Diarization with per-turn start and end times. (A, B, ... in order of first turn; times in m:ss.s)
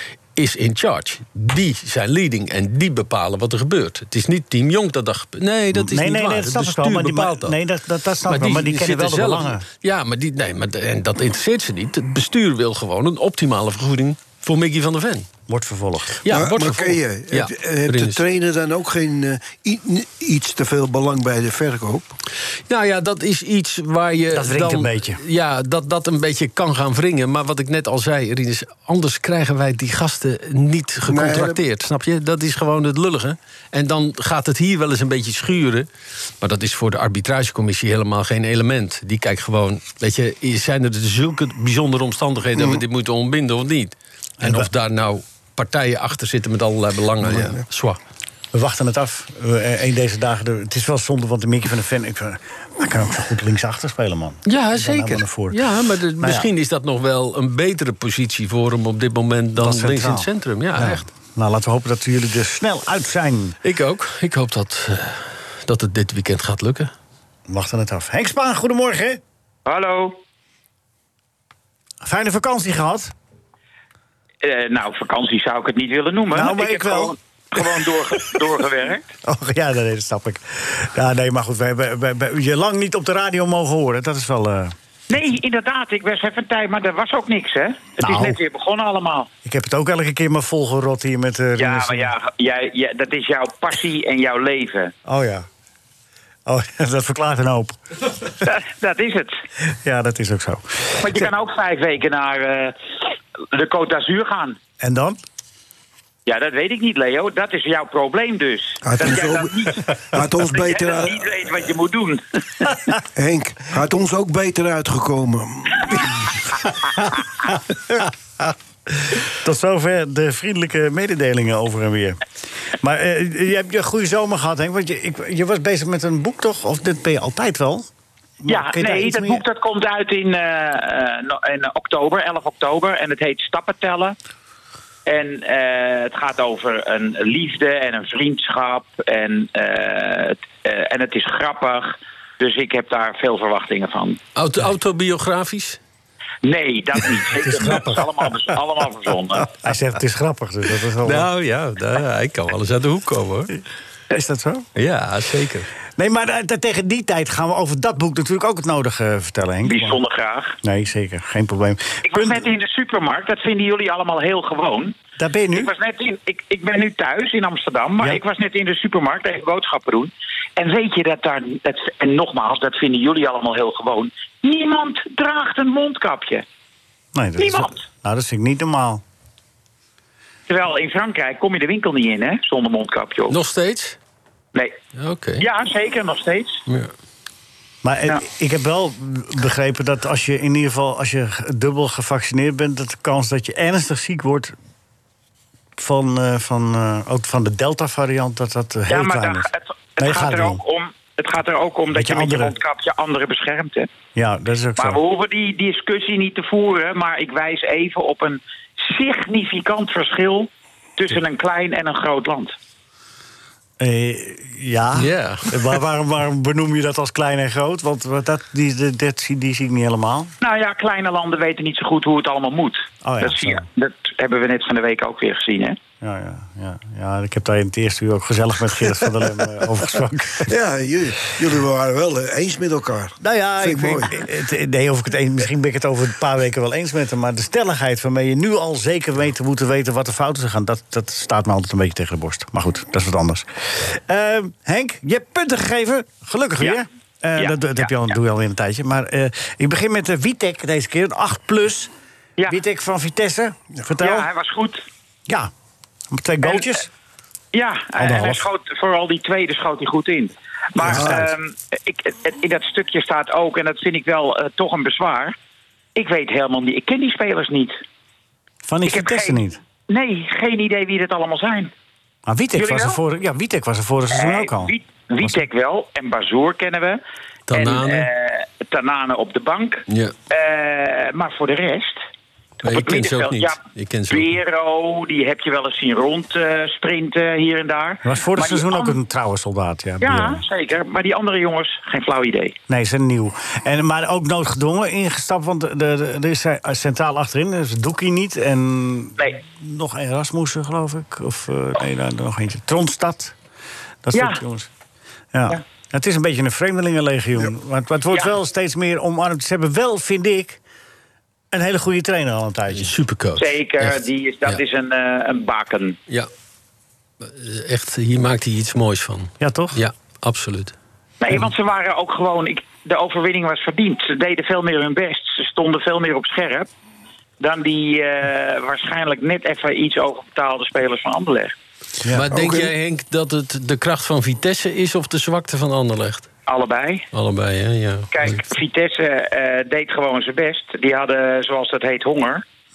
0:00.4-0:07.6 A
0:05.7-0:09.6 B
0:08.2-0:15.3 A
0:15.5-0:16.2 B
0:16.2-0:18.2 A
0:16.3-0:22.1 C
0:22.7-0:35.9 A
0:24.3-0:25.2 B
0:31.1-0:31.6 C
0:36.4-0:48.0 A
0:44.4-0:44.7 B
0:47.2-0:47.6 C
0:48.5-0:55.6 B
0:54.4-1:01.0 A
0:56.2-0:56.5 B
0:59.6-1:03.6 B
1:03.6-1:06.9 A
1:07.5-1:09.2 B
1:09.6-1:10.2 D
1:12.0-1:13.1 B
1:14.4-1:19.1 D
1:16.3-1:17.6 B
1:19.2-1:24.7 B
1:25.1-1:29.3 D
1:28.0-1:28.4 B
1:29.4-1:32.1 B
1:31.6-1:34.9 D
1:35.0-1:35.4 B
1:36.4-1:37.8 B
1:38.4-1:39.4 D
1:39.8-1:41.3 B
1:41.0-1:42.8 D
1:43.5-1:44.6 D
1:44.8-1:45.2 B
1:46.2-1:49.9 D
1:48.8-1:51.3 C
1:50.5-1:52.8 D
1:53.1-1:56.4 C
1:56.9-1:58.1 B
1:59.3-2:02.2 B
2:02.8-2:07.9 B
2:08.4-2:09.4 B
2:08.5-2:14.2 D
2:15.0-2:24.2 D
2:24.4-2:25.8 A
2:26.4-2:29.5 D
2:27.3-2:28.0 B
2:29.5-2:31.3 B
2:31.0-2:33.5 A
2:34.1-2:34.6 B
2:34.7-2:35.7 A
2:36.0-2:40.0 B
2:39.6-2:40.6 D
2:40.6-2:42.4 B
2:42.0-2:45.0 D
2:45.2-2:45.7 B
2:45.5-2:56.4 D
2:57.1-2:59.0 B
2:57.4-2:57.8 D
3:00.5-3:03.3 D
3:03.3-3:04.0 A
3:04.9-3:05.4 A
3:05.4-3:06.6 D
3:07.8-3:14.5 B
3:15.8-3:19.5 B
3:18.9-3:23.9 D
3:20.0-3:20.6 B
3:21.9-3:22.5 B
3:24.2-3:25.0 B
3:24.8-3:32.5 D
3:33.8-3:40.3 B
3:35.0-3:35.8 A
3:40.4-3:45.8 D
3:43.0-3:43.6 B
3:46.0-3:50.5 B
3:50.4-3:54.2 C
3:53.2-4:11.9 B
4:07.4-4:07.9 D
4:12.5-4:14.3 B
4:14.0-4:14.8 D
4:16.1-4:16.9 B
4:16.4-4:16.7 D
4:17.5-4:25.3 D
4:18.0-4:18.4 B
4:20.8-4:21.3 B
4:20.8-4:21.2 C
4:26.0-4:27.8 D
4:28.7-4:29.6 B
4:28.8-4:31.7 D
4:32.3-4:35.3 B
4:32.5-4:33.0 D
4:34.1-4:37.0 D
4:37.5-4:38.1 A
4:37.5-4:42.0 D
4:39.9-4:40.1 A
4:42.6-4:44.4 A
4:42.6-4:43.6 D
4:44.1-4:49.0 D
4:48.0-4:50.4 B
4:50.0-4:52.6 D
4:52.7-5:03.3 B
5:04.0-5:04.7 B
5:04.1-5:04.4 D
5:05.3-5:10.6 B
5:11.5-5:12.9 B
5:12.7-5:14.6 A
5:13.4-5:16.0 D
5:17.2-5:20.7 A
5:19.4-5:19.8 B
5:21.2-5:26.7 D
5:27.4-5:31.5 D
5:32.1-5:36.3 A
5:32.3-5:32.7 C
5:36.4-5:37.0 D
5:37.1-5:38.4 A
5:38.1-5:42.4 D